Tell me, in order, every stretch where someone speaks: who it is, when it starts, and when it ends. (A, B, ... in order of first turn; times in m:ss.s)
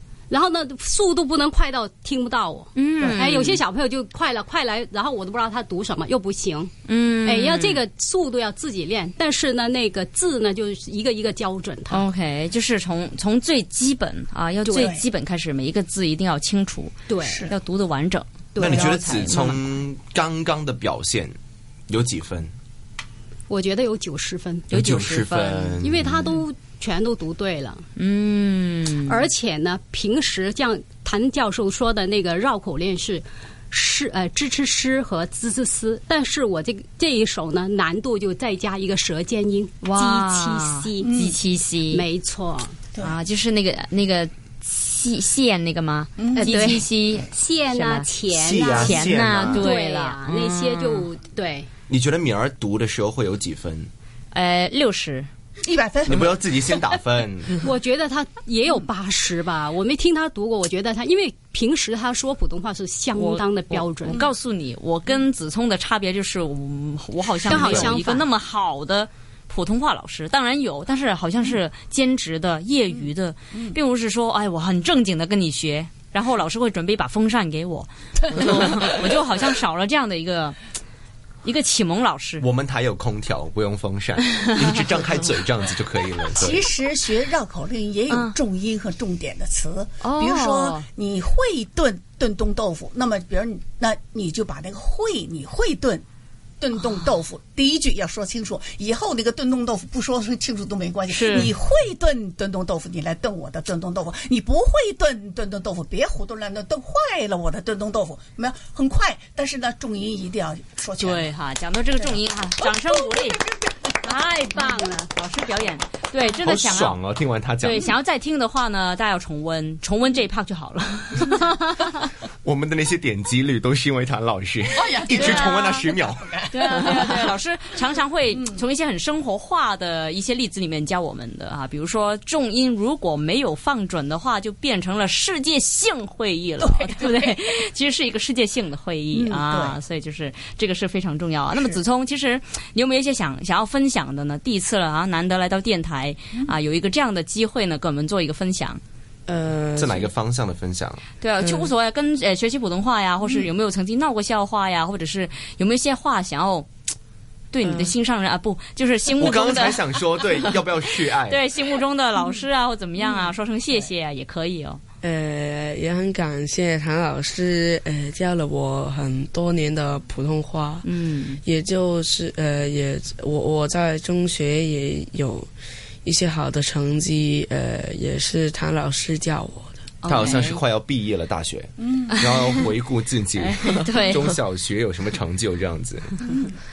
0:00.3-0:06.7 A
0:02.8-0:03.6 B
0:03.0-0:03.3 C
0:06.9-0:07.8 B
0:07.2-0:12.0 A
0:11.9-0:19.6 B
0:14.8-0:15.0 C
0:17.1-0:17.5 A
0:17.2-0:17.5 C
0:18.6-0:19.0 A
0:18.6-0:21.4 D
0:21.9-0:22.5 D
0:23.5-0:24.7 A
0:24.7-0:25.8 B
0:24.7-0:26.4 D
0:25.8-0:27.8 A
0:28.0-0:29.2 B
0:29.1-0:41.3 A
0:39.8-0:42.0 B
0:41.0-0:41.3 C
0:41.9-0:42.9 A
0:43.0-0:48.1 B
0:46.2-0:46.5 C
0:46.4-0:51.7 A
0:48.3-0:49.6 D
0:48.7-0:51.1 B
0:51.9-0:53.9 D
0:54.3-0:55.3 B
0:55.6-0:56.5 C
0:56.1-0:57.7 D
0:57.6-1:04.3 A
1:03.2-1:20.6 B
1:07.5-1:08.3 A
1:18.4-1:18.8 C
1:21.4-1:22.5 B
1:22.4-1:26.7 D
1:26.3-1:36.0 C
1:28.1-1:28.4 B
1:30.0-1:30.8 B
1:36.6-1:51.3 C
1:41.1-1:41.5 B
1:51.0-1:53.4 B
1:52.0-1:53.9 C
1:54.0-1:57.0 B
1:54.0-1:55.1 A
1:56.4-1:57.9 D
1:57.6-2:02.0 B
2:02.4-2:06.4 D
2:04.7-2:07.3 C
2:05.1-2:05.7 B
2:06.5-2:28.8 B
2:16.6-2:17.3 C
2:19.1-2:19.8 C
2:21.5-2:21.8 C
2:29.3-2:30.1 E
2:29.8-2:31.0 D
2:31.2-2:36.7 B
2:31.4-2:31.7 E
2:37.5-2:40.6 B
2:37.6-2:37.9 E
2:39.2-2:41.4 D
2:41.2-2:44.8 B
2:45.0-2:50.9 E
2:50.8-2:51.4 B
2:51.4-2:55.5 E
2:56.0-2:59.8 E
3:00.0-3:00.6 B
3:00.1-3:06.2 D
3:01.8-3:02.2 C
3:02.1-3:02.4 B
3:03.4-3:04.4 B